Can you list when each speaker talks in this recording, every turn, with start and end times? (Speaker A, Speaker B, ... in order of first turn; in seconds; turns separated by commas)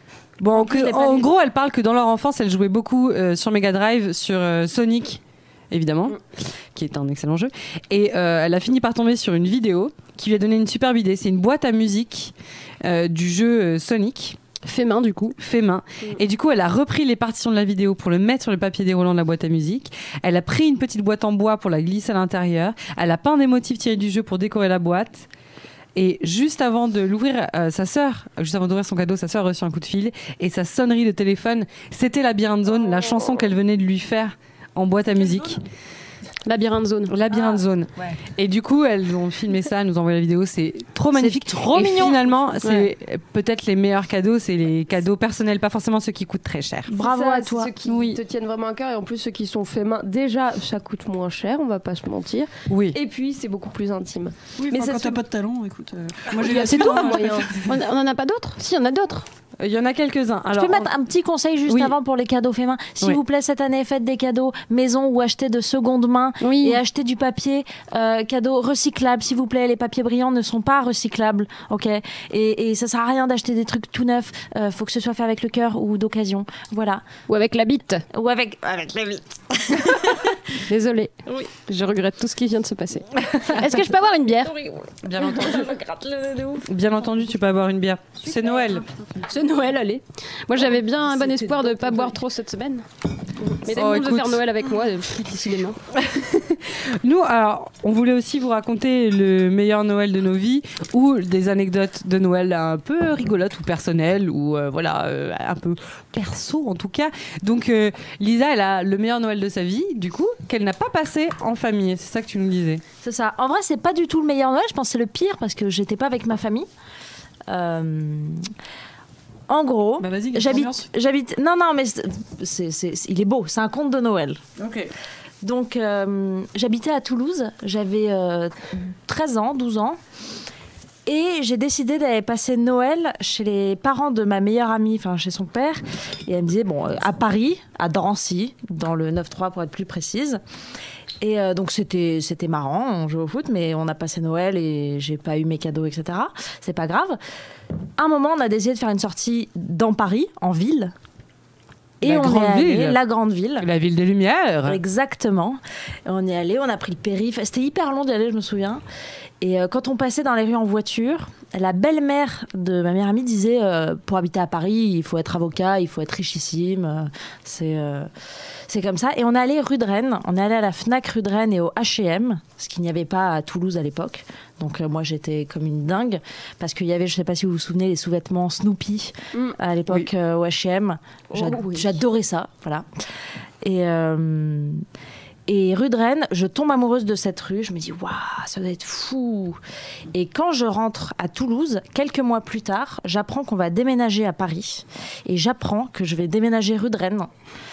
Speaker A: 0.4-14.4, Speaker B: 0.6-1.2, Speaker C: 14.7-15.4, Speaker A: 15.4-25.3, Speaker A: 25.9-35.6, Speaker C: 36.5-37.1, Speaker A: 37.1-46.9, Speaker B: 41.1-42.2, Speaker B: 46.9-47.7, Speaker D: 46.9-55.2, Speaker C: 47.9-48.2, Speaker A: 52.7-53.0, Speaker E: 54.6-57.8, Speaker C: 56.4-59.3, Speaker D: 56.4-57.5, Speaker A: 59.6-60.9, Speaker B: 60.5-77.0, Speaker A: 61.7-62.0, Speaker C: 66.4-66.8, Speaker C: 77.3-78.0, Speaker B: 78.1-80.4, Speaker C: 80.7-84.6, Speaker A: 85.0-85.7, Speaker B: 85.5-86.7, Speaker A: 86.7-88.8, Speaker C: 89.2-92.9, Speaker B: 91.1-92.1, Speaker C: 93.6-95.8, Speaker A: 93.7-94.4, Speaker A: 95.9-112.8, Speaker B: 113.0-116.7, Speaker B: 117.5-118.5, Speaker B: 119.5-124.4, Speaker E: 120.0-120.8, Speaker A: 124.6-124.9, Speaker B: 125.4-130.0, Speaker B: 131.1-140.4, Speaker B: 141.2-147.2, Speaker B: 148.0-150.9, Speaker B: 152.0-153.7, Speaker A: 152.0-153.0, Speaker A: 153.6-154.8, Speaker B: 154.7-158.8, Speaker B: 159.4-168.1, Speaker B: 168.7-182.9, Speaker D: 181.3-181.9, Speaker B: 183.6-184.8, Speaker B: 185.5-189.6, Speaker B: 190.1-197.3